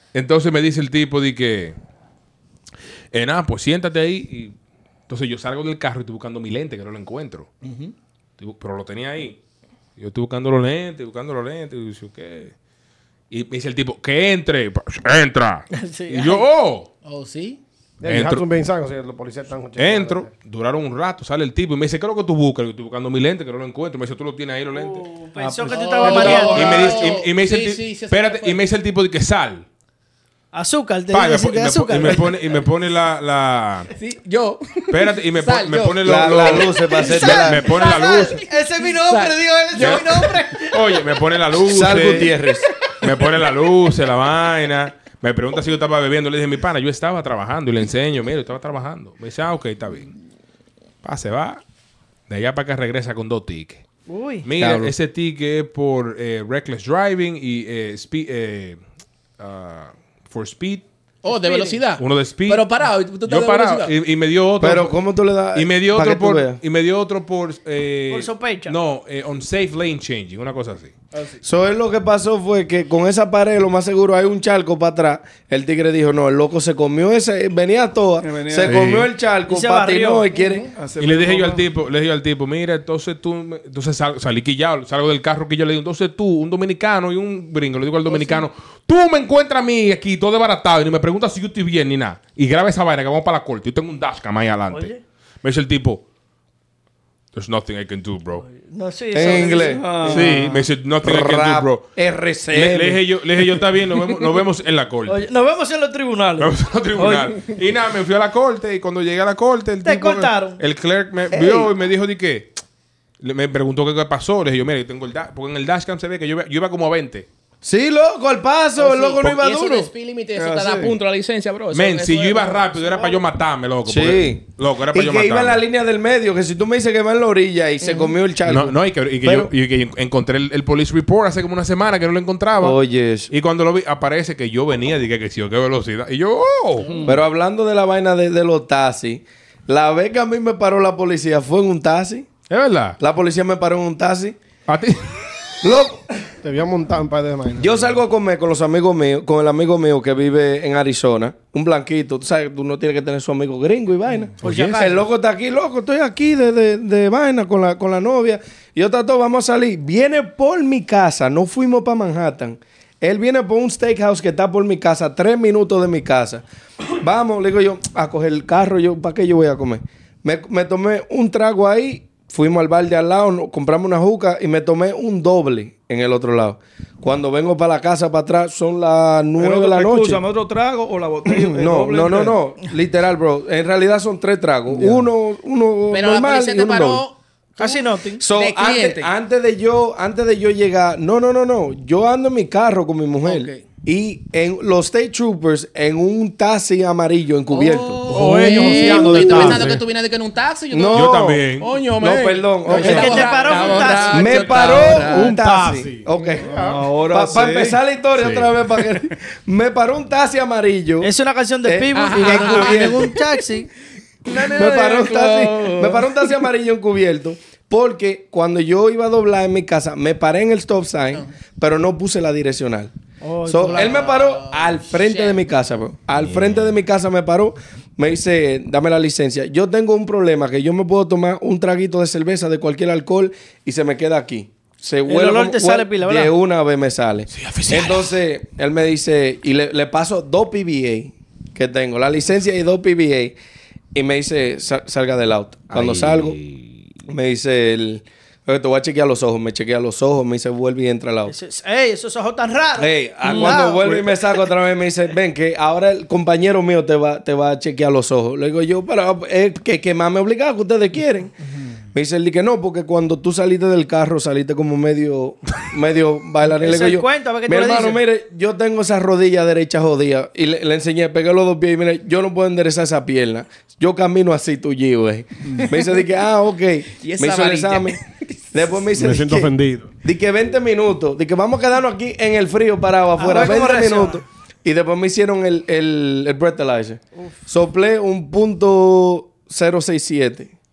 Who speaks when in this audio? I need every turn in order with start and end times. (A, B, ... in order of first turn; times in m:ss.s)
0:00.1-0:01.8 A
0:03.1-0:04.6 A
0:05.1-0:07.5 A
0:07.6-0:07.9 B
0:08.4-0:09.4 A
0:10.0-0:12.5 A
0:13.3-0:16.9 A
0:15.7-0:16.5 C
0:17.0-0:17.6 B
0:18.0-0:20.3 D
0:18.1-0:18.4 A
0:19.8-0:25.1 A
0:24.8-0:27.1 C
0:25.6-0:26.4 D
0:25.7-0:26.0 E
0:26.0-0:28.6 B
0:26.0-0:29.7 A
0:26.1-0:26.7 F
0:30.5-0:32.3 C
0:31.1-0:33.9 A
0:34.0-0:37.3 B
0:34.9-0:38.4 A
0:36.0-0:37.7 F
0:37.0-0:41.0 C
0:37.9-0:40.4 B
0:39.8-0:42.4 A
0:41.6-0:42.7 F
0:43.0-0:50.1 A
0:51.0-0:51.6 A
0:52.3-0:53.8 A
0:54.1-0:54.5 C
0:54.4-0:58.8 A
0:54.6-0:54.9 F
0:59.4-1:00.9 A
1:01.2-1:03.9 B
1:01.3-1:01.8 C
1:02.0-1:05.0 A
1:04.6-1:06.6 F
1:05.5-1:10.9 A
1:08.1-1:08.8 C
1:11.1-1:11.4 B
1:11.4-1:20.7 F
1:18.2-1:18.8 E
1:18.6-1:19.1 A
1:19.5-1:20.3 C
1:20.3-1:20.7 B
1:20.8-1:21.7 E
1:21.0-1:36.0 A
1:28.1-1:28.4 C
1:34.7-1:35.0 C
1:37.3-1:38.4 A
1:38.4-1:40.0 C
1:39.1-1:40.4 F
1:39.6-1:40.6 E
1:40.1-1:45.3 A
1:41.0-1:43.1 F
1:45.1-1:47.4 C
1:46.4-1:52.6 A
1:49.8-1:50.6 C
1:51.3-1:51.7 F
1:53.2-1:57.3 A
1:57.6-1:59.9 F
1:58.8-2:03.2 B
2:00.4-2:01.0 E
2:01.7-2:05.6 A
2:03.8-2:09.5 F
2:07.8-2:08.2 B
2:08.4-2:12.8 A
2:12.6-2:13.3 F
2:13.3-2:16.9 A
2:16.8-2:17.1 B
2:16.9-2:17.2 E
2:17.0-2:22.4 F
2:22.5-2:23.0 A
2:23.0-2:24.4 F
2:24.7-2:25.2 A
2:25.6-2:26.0 F
2:26.4-2:28.0 D
2:27.6-2:46.4 F
2:34.4-2:35.0 D
2:34.4-2:34.9 C
2:47.0-3:00.2 F
2:59.4-3:02.4 E
3:01.3-3:07.0 F
3:04.7-3:05.0 E
3:05.9-3:07.8 B
3:07.6-3:08.2 C
3:08.2-3:18.1 F
3:08.3-3:09.1 B
3:13.2-3:13.6 B
3:17.5-3:25.4 B
3:18.1-3:19.8 D
3:18.1-3:19.8 A
3:19.2-3:19.7 F
3:20.7-3:31.1 F
3:20.9-3:21.7 A
3:22.7-3:24.6 C
3:24.5-3:26.8 D
3:26.4-3:27.8 E
3:28.2-3:28.5 A
3:31.0-3:33.7 C
3:31.6-3:33.2 F
3:31.9-3:33.2 B
3:34.3-3:36.1 B
3:34.3-3:42.9 F
3:43.2-3:44.2 C
3:43.4-4:03.4 F
3:43.6-3:45.4 B
3:46.2-3:46.8 A
3:55.1-3:56.3 C
3:57.3-3:58.1 A
4:04.0-4:06.4 F
4:05.7-4:07.1 A
4:07.1-4:11.3 F
4:11.3-4:13.8 C
4:12.8-4:21.4 F
4:13.2-4:14.2 E
4:21.9-4:38.0 F
4:26.6-4:28.0 C
4:37.0-4:38.4 B
4:38.5-4:50.5 F
4:39.0-4:39.9 D
4:43.2-4:44.2 C